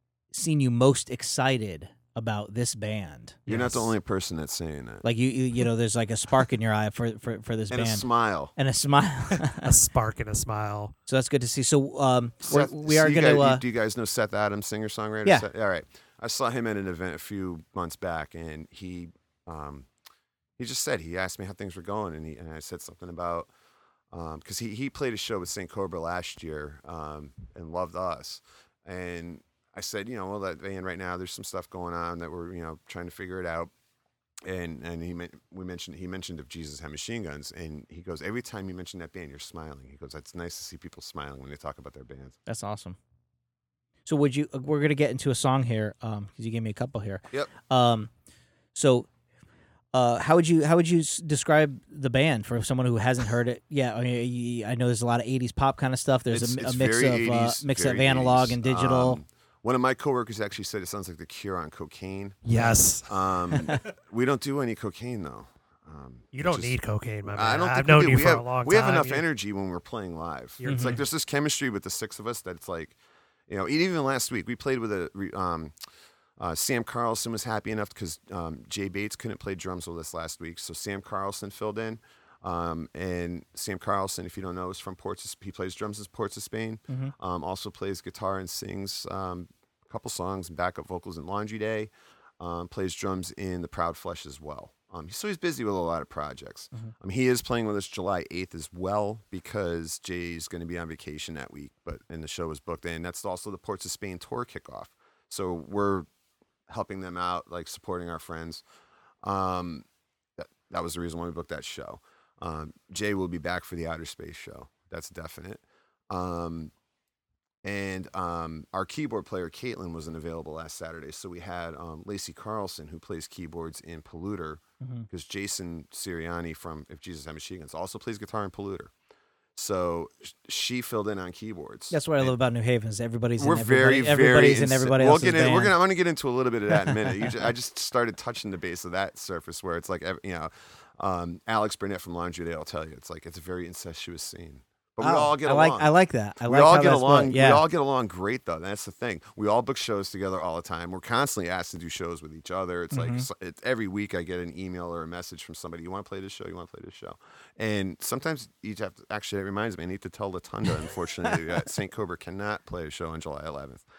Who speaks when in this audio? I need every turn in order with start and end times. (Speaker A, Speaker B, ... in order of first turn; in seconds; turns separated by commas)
Speaker A: 0.3-3.8, Speaker B: 3.5-5.1, Speaker C: 3.5-3.8, Speaker A: 5.0-9.8, Speaker B: 7.7-8.5, Speaker C: 9.5-10.9, Speaker A: 11.1-13.6, Speaker B: 12.4-19.9, Speaker B: 20.6-23.5, Speaker B: 24.1-33.7, Speaker B: 34.4-42.4, Speaker A: 42.5-43.0, Speaker A: 44.0-48.1, Speaker A: 48.7-49.1, Speaker A: 49.9-59.2, Speaker B: 56.3-62.5, Speaker C: 62.4-63.1, Speaker B: 63.0-66.7, Speaker C: 66.3-69.2, Speaker B: 67.3-73.0, Speaker C: 70.6-71.0, Speaker A: 70.6-71.0, Speaker B: 73.5-75.7, Speaker B: 76.4-106.1, Speaker A: 86.9-87.1, Speaker B: 106.7-108.6, Speaker B: 109.2-109.8, Speaker B: 110.4-116.7, Speaker B: 117.6-128.9, Speaker A: 124.8-125.1, Speaker B: 129.6-132.3, Speaker A: 131.9-135.7, Speaker B: 133.4-163.8, Speaker A: 136.7-137.3, Speaker A: 145.0-147.6, Speaker A: 152.9-153.3